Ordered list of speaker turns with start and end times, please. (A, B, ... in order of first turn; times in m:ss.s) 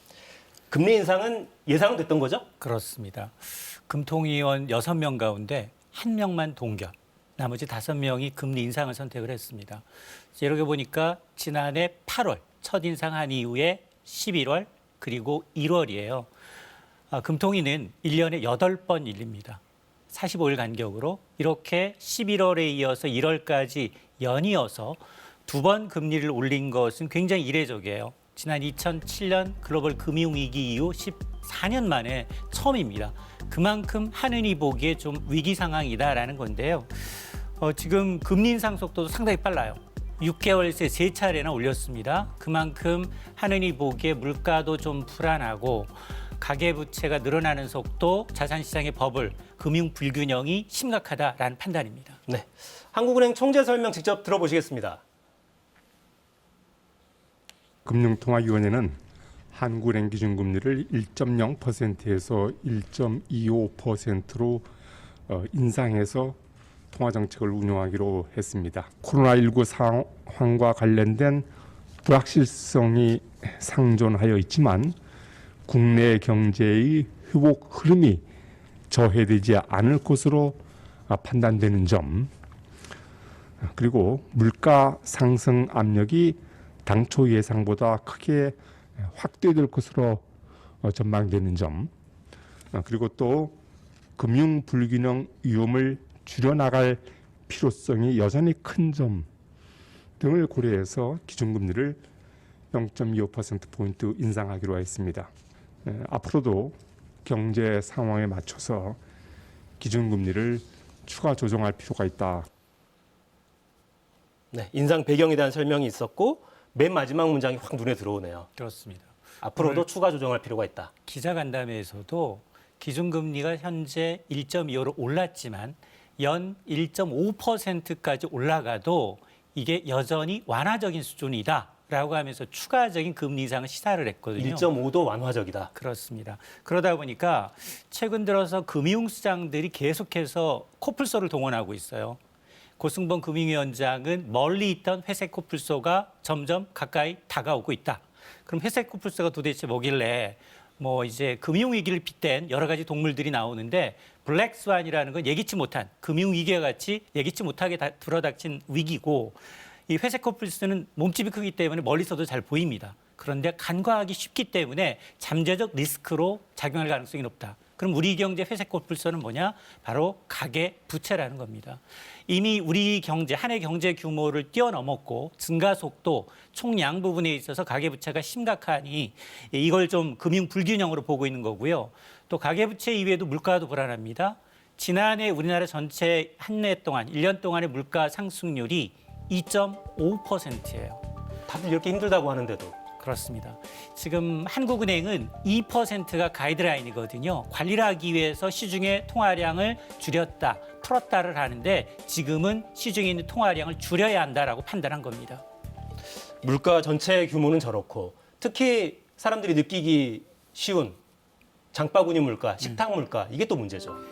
0:00.7-0:02.5 A
0:02.6-0:09.8 B
0:10.4-0:16.3 B
0:17.1-0:52.2 B
0:52.3-0:55.0 A
0:57.8-0:59.0 C
0:59.5-1:04.7 C
1:05.3-1:06.4 C
1:06.9-1:11.5 C
1:12.0-1:15.0 C
1:15.7-1:18.2 C
1:18.9-1:22.3 C
1:23.6-1:30.2 C
1:30.8-1:31.9 C
1:32.7-1:33.6 C
1:34.2-1:39.3 C
1:40.2-1:42.0 C
1:42.7-1:45.3 C
1:45.8-1:49.0 C
1:49.8-1:52.5 C
1:54.5-1:58.5 A
1:58.6-1:59.9 B
1:59.4-2:00.9 A
2:01.1-2:14.7 B
2:14.4-2:15.7 A
2:15.8-2:22.2 B
2:22.8-3:11.0 B
3:11.5-3:12.8 A
3:13.0-3:25.4 B
3:26.4-3:31.0 A
3:31.7-3:34.0 A